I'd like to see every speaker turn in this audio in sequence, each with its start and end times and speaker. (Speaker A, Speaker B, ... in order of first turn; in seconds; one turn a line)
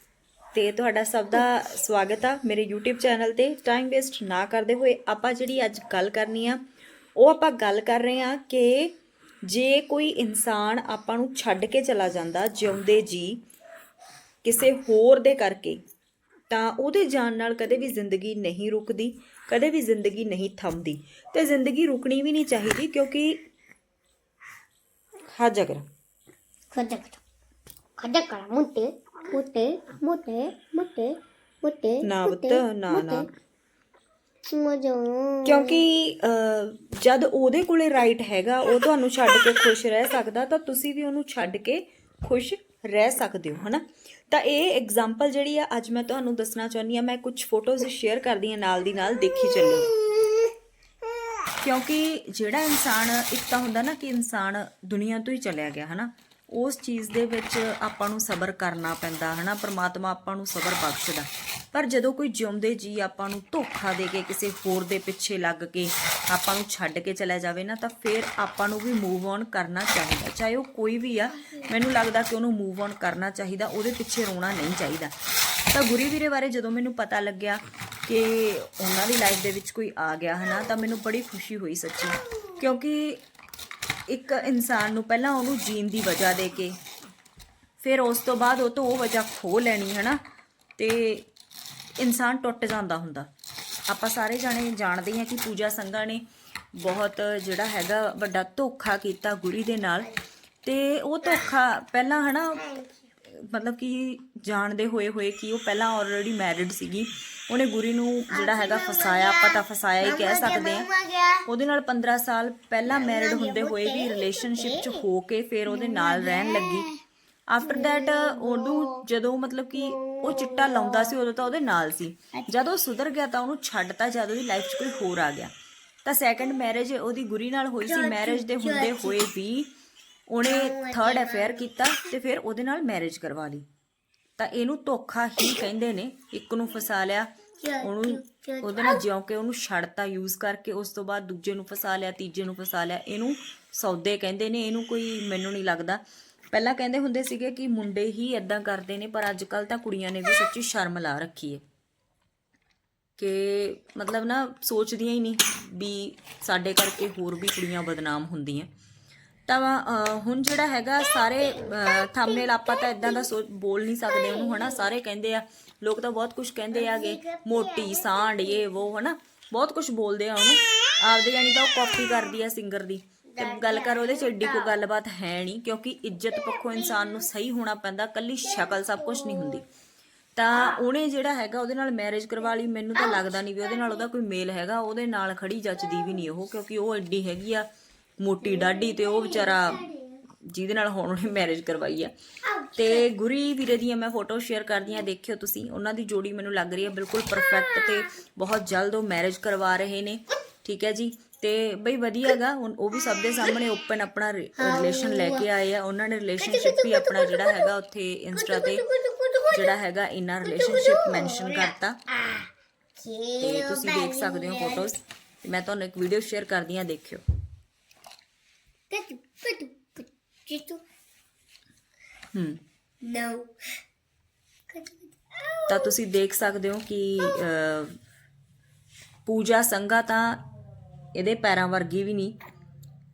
Speaker A: 0.5-6.6
Speaker A: 7.2-8.9
Speaker A: 9.4-13.4
Speaker A: 14.4-15.8
Speaker A: 16.5-23.4
Speaker A: 25.3-25.8
Speaker B: 26.7-27.2
Speaker B: 28.0-33.3
Speaker A: 32.0-33.3
Speaker B: 34.5-35.8
Speaker A: 35.5-49.9
Speaker B: 49.6-50.4
Speaker A: 51.6-75.1
Speaker A: 75.7-83.2
Speaker A: 84.1-86.8
Speaker A: 87.8-90.2
Speaker A: 90.8-91.2
Speaker A: 92.0-93.3
Speaker A: 93.9-96.2
Speaker A: 96.8-100.1
Speaker A: 100.6-102.6
Speaker B: 101.2-101.5
Speaker B: 102.5-103.0
Speaker A: 103.3-110.9
Speaker B: 108.3-111.5
Speaker A: 111.5-116.8
Speaker B: 112.9-115.0
Speaker B: 115.7-117.0
Speaker A: 117.5-125.5
Speaker B: 117.6-119.0
Speaker B: 119.8-121.2
Speaker B: 122.3-122.7
Speaker A: 126.0-129.7
Speaker B: 127.9-129.2
Speaker A: 130.3-133.6
Speaker B: 130.4-131.7
Speaker A: 134.4-137.3
Speaker B: 137.6-139.0
Speaker A: 137.8-146.0
Speaker A: 146.5-151.6
Speaker A: 153.2-158.7
Speaker A: 159.5-179.7
Speaker B: 161.4-163.3
Speaker B: 164.1-164.9
Speaker B: 166.7-168.8
Speaker B: 173.3-174.8
Speaker B: 176.3-177.2
Speaker B: 178.5-179.6
Speaker A: 180.4-187.7
Speaker B: 180.5-180.8
Speaker B: 182.9-184.1
Speaker B: 185.8-186.2
Speaker A: 188.2-189.8
Speaker B: 188.4-190.2
Speaker A: 190.5-192.1
Speaker B: 192.5-193.1
Speaker A: 192.8-208.8
Speaker B: 197.6-197.9
Speaker B: 203.2-203.6
Speaker B: 204.6-205.5
Speaker B: 206.4-207.7
Speaker B: 208.3-209.8
Speaker A: 209.5-212.0
Speaker B: 210.4-214.9
Speaker A: 213.4-217.2
Speaker B: 218.9-220.8
Speaker A: 222.3-222.6
Speaker B: 223.0-223.5
Speaker B: 224.7-225.9
Speaker A: 225.7-227.9
Speaker A: 229.2-230.4
Speaker A: 231.2-232.4